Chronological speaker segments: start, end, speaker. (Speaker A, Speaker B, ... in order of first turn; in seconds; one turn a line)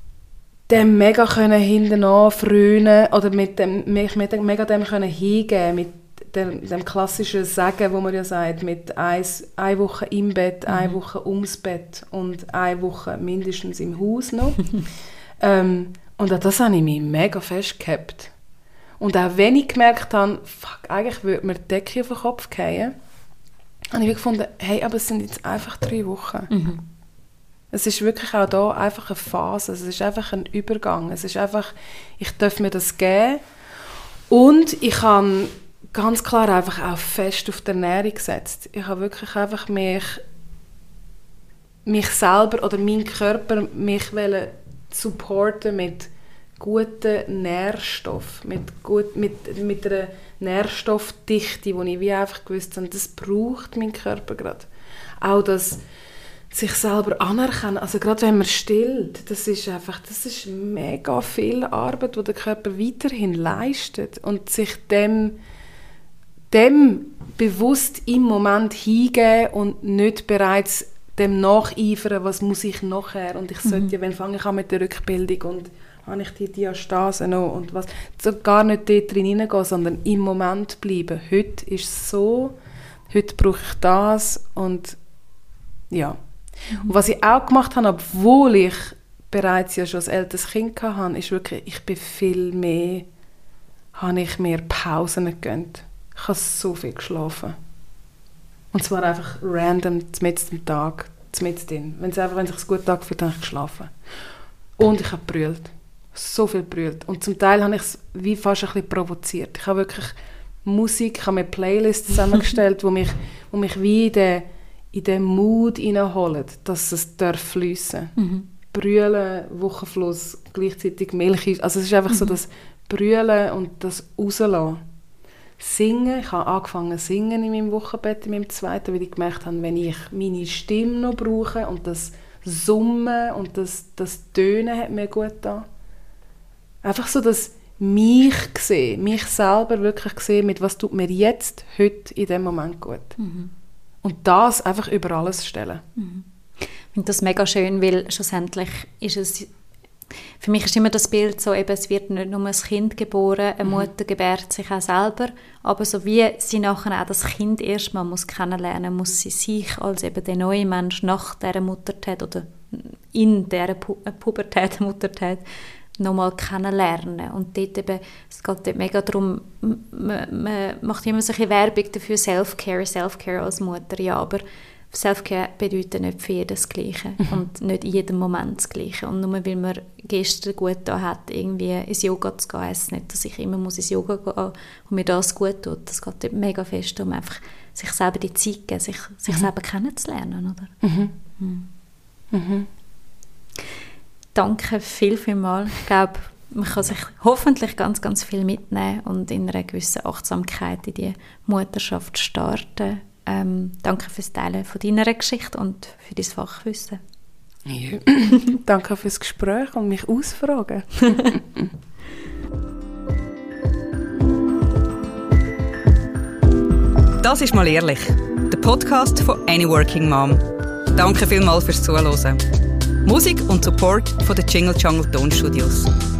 Speaker A: 0.7-14.7
Speaker B: 10.7-11.0
Speaker A: 15.4-18.3
Speaker A: 19.0-22.9
Speaker A: 23.9-26.5
Speaker B: 26.5-26.8
Speaker A: 27.7-33.4
Speaker A: 34.3-40.2
Speaker A: 41.9-54.7
Speaker A: 55.2-55.8
Speaker A: 56.5-65.3
Speaker A: 66.5-82.5
Speaker B: 73.6-73.9
Speaker A: 83.1-85.0
Speaker A: 85.9-86.2
Speaker A: 86.8-93.1
Speaker A: 94.0-97.6
Speaker A: 98.7-103.9
Speaker A: 104.8-118.1
Speaker B: 118.2-118.5
Speaker A: 118.7-124.8
Speaker B: 122.1-122.4
Speaker A: 125.6-135.7
Speaker A: 136.8-143.2
Speaker B: 143.2-143.5
Speaker A: 144.0-145.8
Speaker B: 146.0-146.3
Speaker B: 146.9-149.5
Speaker B: 150.4-165.4
Speaker A: 153.6-153.9
Speaker B: 166.0-190.8
Speaker A: 190.8-191.1
Speaker B: 191.4-191.7
Speaker A: 192.3-192.7
Speaker B: 194.3-207.0
Speaker A: 207.7-211.7
Speaker C: 217.2-225.9